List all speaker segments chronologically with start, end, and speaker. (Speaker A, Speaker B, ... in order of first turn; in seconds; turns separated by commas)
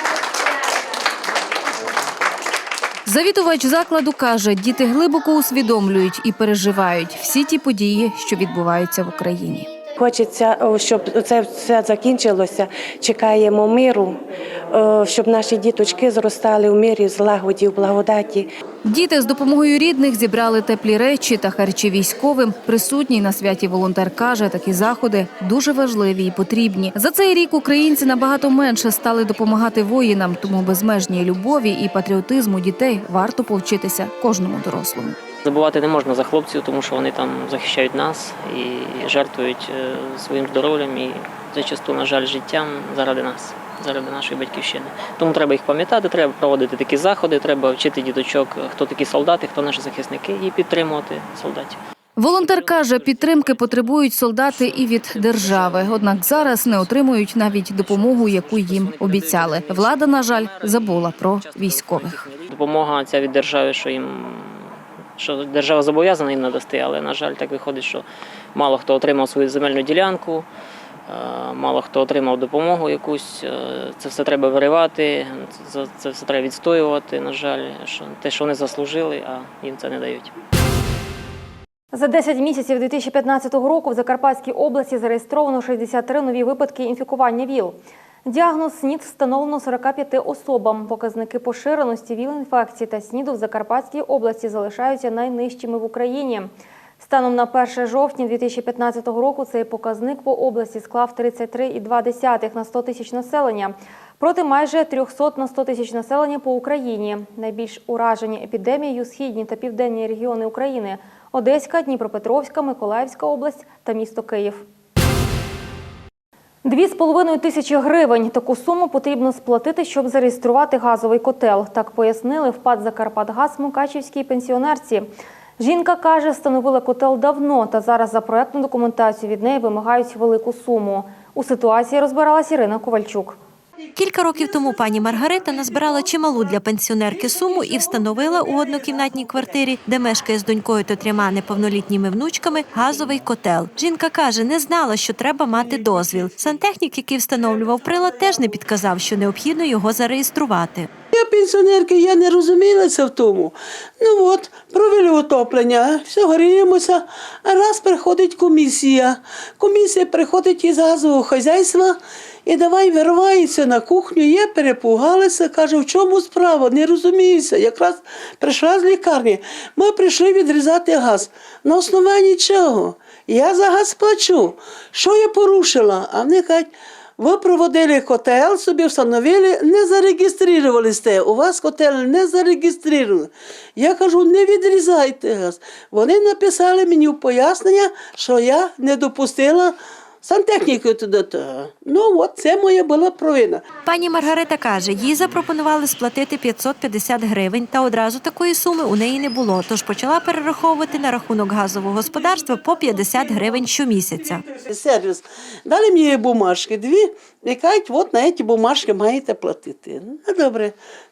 Speaker A: 3.0-9.7, Speaker B: 10.0-14.2, Speaker B: 14.7-18.5, Speaker A: 18.8-35.2, Speaker C: 35.4-51.8, Speaker A: 52.2-62.3, Speaker C: 62.4-70.5, Speaker C: 71.1-80.3, Speaker D: 81.9-114.6, Speaker D: 116.6-125.1, Speaker D: 125.6-133.4, Speaker E: 133.9-150.9, Speaker F: 151.1-193.6, Speaker E: 193.8-204.4, Speaker F: 204.5-210.7